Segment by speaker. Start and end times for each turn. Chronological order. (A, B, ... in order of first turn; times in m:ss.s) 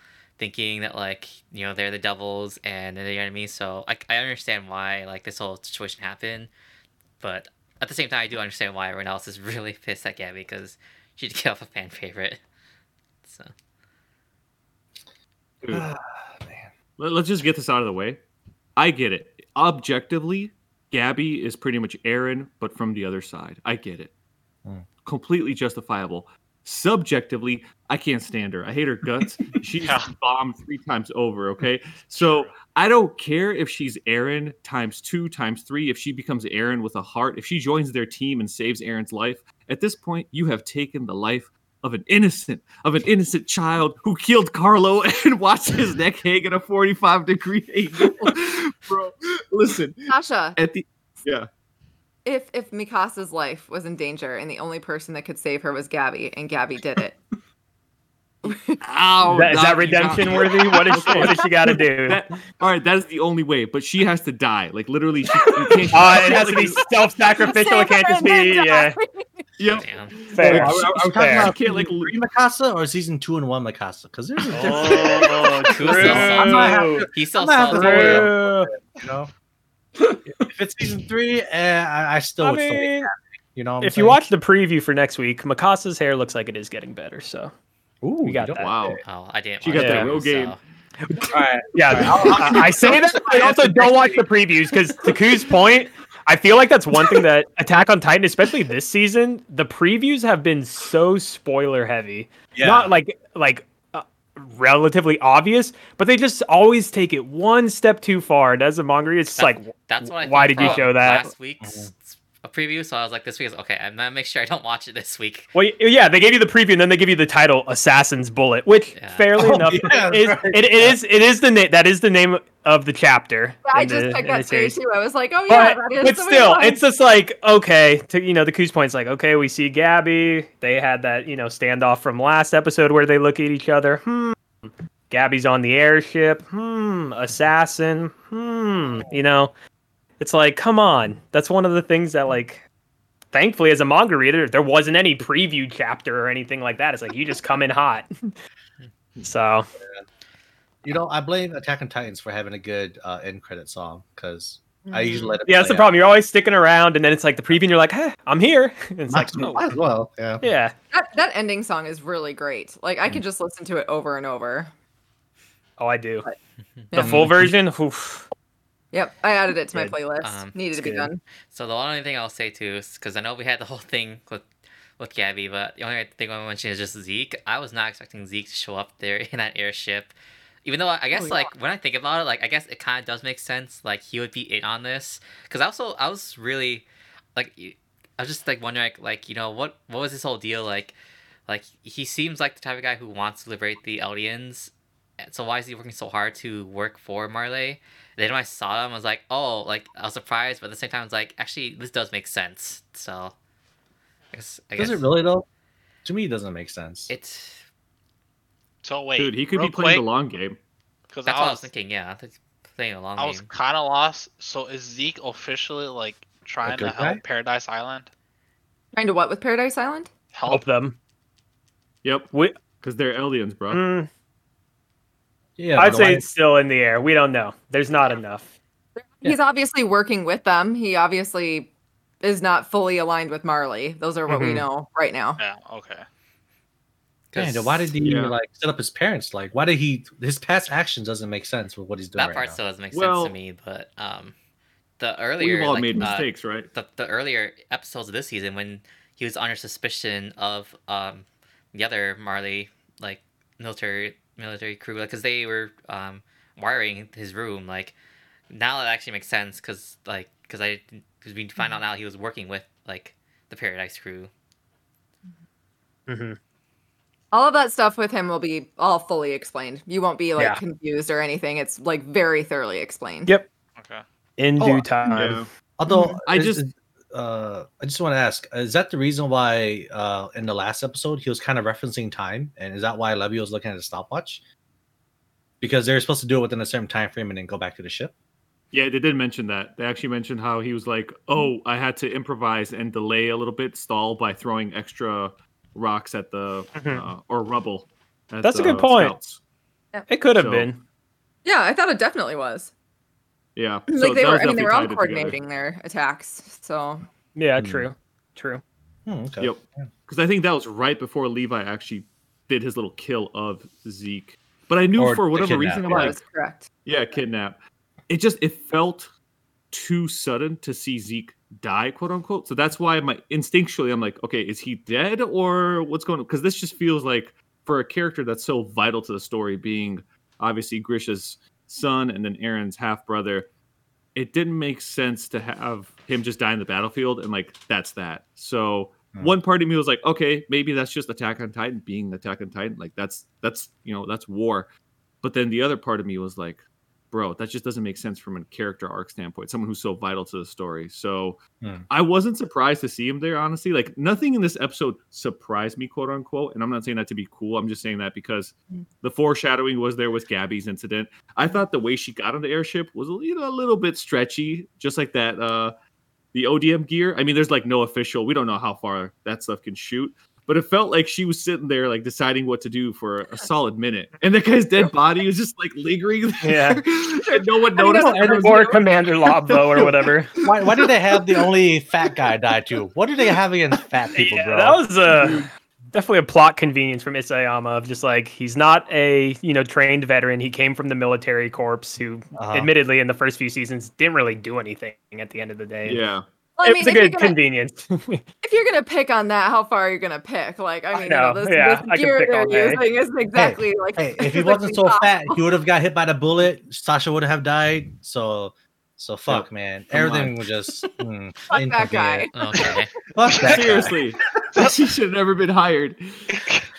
0:00.4-0:06.5 A
0:07.2-0:12.4 A
0:13.2-0:13.5 A
0:15.6-0:15.9 B
0:15.7-0:16.7 C
0:17.0-0:18.2 B
0:18.8-0:24.1 B
0:25.0-0:51.5 B
0:29.8-0:30.1 D
0:32.2-0:32.5 D
0:50.1-0:50.6 E
0:52.2-0:57.2 E
0:58.4-0:58.8 E
0:58.8-1:06.8 B
0:59.3-1:02.2 F
1:01.0-1:01.5 E
1:05.4-1:05.8 E
1:05.9-1:09.0 F
1:07.4-1:09.4 E
1:09.6-1:12.1 B
1:09.8-1:10.1 A
1:10.3-1:11.5 F
1:10.4-1:19.3 C
1:14.5-1:17.1 F
1:14.9-1:18.3 A
1:17.6-1:18.7 F
1:20.3-1:24.2 C
1:22.4-1:23.1 F
1:23.8-1:27.5 F
1:28.0-1:29.0 C
1:28.2-1:28.7 F
1:28.6-1:29.0 B
1:29.0-1:30.6 A
1:29.6-1:30.6 B
1:29.7-1:30.2 F
1:31.0-1:51.3 F
1:31.3-1:34.2 C
1:42.5-1:42.9 C
1:49.3-1:55.5 A
1:51.6-1:51.9 C
1:55.5-2:04.8 F
1:59.0-1:59.3 A
1:59.4-2:01.0 C
2:03.6-2:06.8 E
2:05.5-2:14.4 F
2:15.1-2:19.5 F
2:20.2-2:22.6 F
2:23.3-2:28.3 F
2:29.2-2:29.7 F
2:30.8-2:35.9 C
2:34.8-2:35.4 E
2:35.4-2:39.7 F
2:39.1-2:40.4 C
2:40.4-2:40.7 F
2:40.9-2:44.7 E
2:45.8-2:46.2 F
2:46.9-2:47.3 E
2:46.9-2:48.3 F
2:48.9-2:51.2 E
2:50.2-2:50.6 A
2:50.7-2:51.1 F
2:51.5-2:54.5 A
2:55.0-3:10.9 A
3:01.1-3:01.5 E
3:11.5-3:23.3 A
3:24.3-3:25.1 A
3:24.8-3:25.5 C
3:26.0-3:27.1 C
3:27.1-3:27.6 A
3:28.8-3:30.0 D
3:29.2-3:30.6 B
3:31.1-3:31.7 D
3:31.2-3:33.5 A
3:33.2-3:38.1 D
3:36.6-3:37.2 C
3:38.9-3:40.1 E
3:40.3-3:40.6 D
3:40.4-3:41.0 F
3:42.0-3:43.8 B
3:42.3-3:42.6 F
3:43.7-3:44.1 F
3:45.6-3:46.2 C
3:45.7-3:48.5 F
3:49.0-3:55.4 E
3:54.3-3:54.6 F
3:55.4-3:56.0 D
3:57.3-3:57.9 A
3:57.4-4:02.6 C
3:58.0-3:58.3 B
4:02.2-4:04.3 A
4:02.9-4:03.3 B
4:05.0-4:17.9 A
4:05.4-4:06.7 B
4:18.5-4:24.3 A
4:26.1-4:26.4 F
4:27.3-4:33.3 E
4:30.4-4:30.6 F
4:33.8-4:34.0 D
4:34.4-4:35.4 F
4:34.6-4:44.4 C
4:35.2-4:35.5 B
4:35.9-4:36.2 E
4:36.2-4:36.6 B
4:45.6-4:48.1 C
4:48.7-4:59.4 B
4:56.7-4:57.0 F
4:58.4-4:59.2 F
5:00.1-5:00.8 F
5:00.3-5:00.7 B
5:01.4-5:02.7 E
5:03.6-5:05.4 B
5:03.9-5:07.1 E
5:07.4-5:08.6 F
5:07.6-5:07.9 C
5:09.0-5:09.9 C
5:09.4-5:16.2 B
5:15.0-5:16.2 C
5:15.8-5:16.7 E
5:16.8-5:17.6 B
5:18.1-5:19.1 B
5:19.7-5:33.5 B
5:34.1-5:44.7 B
5:45.2-5:51.4 B
5:51.9-6:05.7 B
6:06.3-6:20.9 B
6:16.4-6:16.8 F
6:17.8-6:20.3 F
6:17.9-6:18.5 C
6:18.1-6:18.3 E
6:20.4-6:24.8 C
6:24.1-6:36.0 F
6:25.1-6:25.5 B
6:32.4-6:32.7 C
6:35.8-6:36.2 B
6:36.6-6:37.4 E
6:36.6-6:38.2 F
6:38.4-6:45.4 E
6:40.9-6:42.8 F
6:43.3-6:54.0 C
6:49.3-6:50.4 B
6:51.5-6:52.7 E
6:52.3-6:52.9 A
6:53.4-6:56.2 B
6:56.3-6:56.6 D